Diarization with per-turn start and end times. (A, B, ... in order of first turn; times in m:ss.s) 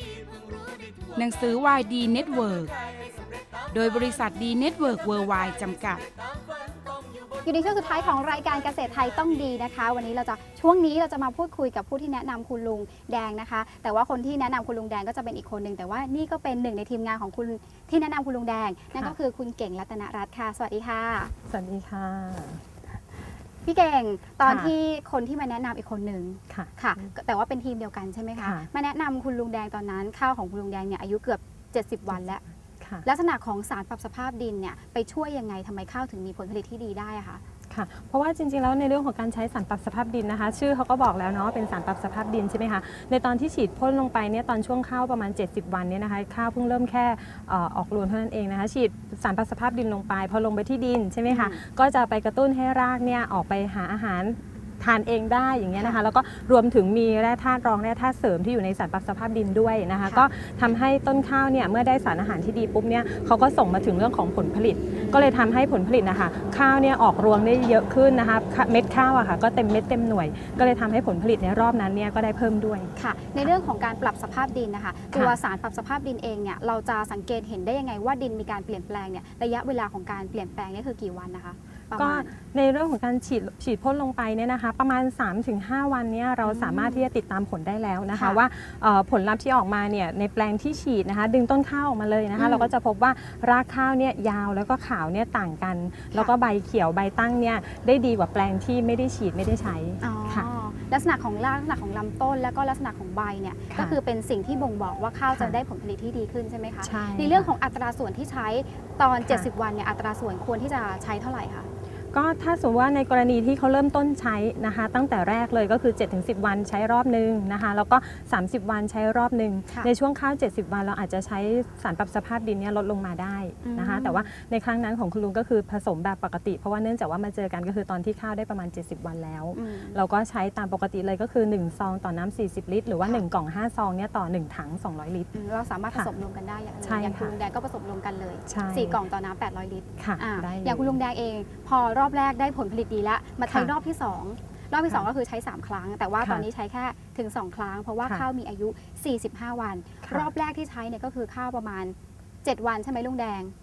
0:01.1-0:02.7 A
0:03.7-0:06.0 A
0:07.4-0:21.3 B
0:21.5-0:22.6 C
0:23.6-0:32.4 B
0:24.4-0:24.7 C
0:26.5-0:27.1 C
0:28.4-0:28.7 C
0:32.8-0:33.0 C
0:33.0-0:37.4 B
0:37.7-1:13.5 C
0:51.3-0:51.6 B
1:05.0-1:05.4 B
1:10.6-1:10.8 B
1:13.0-1:22.3 B
1:22.0-1:40.5 C
1:26.4-1:27.1 B
1:28.1-1:28.4 B
1:32.4-1:32.7 B
1:40.0-1:51.7 B
1:43.7-1:44.0 C
1:45.3-1:45.6 C
1:46.8-1:47.5 C
1:49.2-1:49.5 C
1:52.1-2:15.3 C
2:03.6-2:04.3 B
2:09.5-2:10.0 B
2:15.3-2:33.5 B
2:16.8-2:17.3 C
2:18.5-2:19.0 C
2:20.0-2:21.0 C
2:30.0-2:30.3 C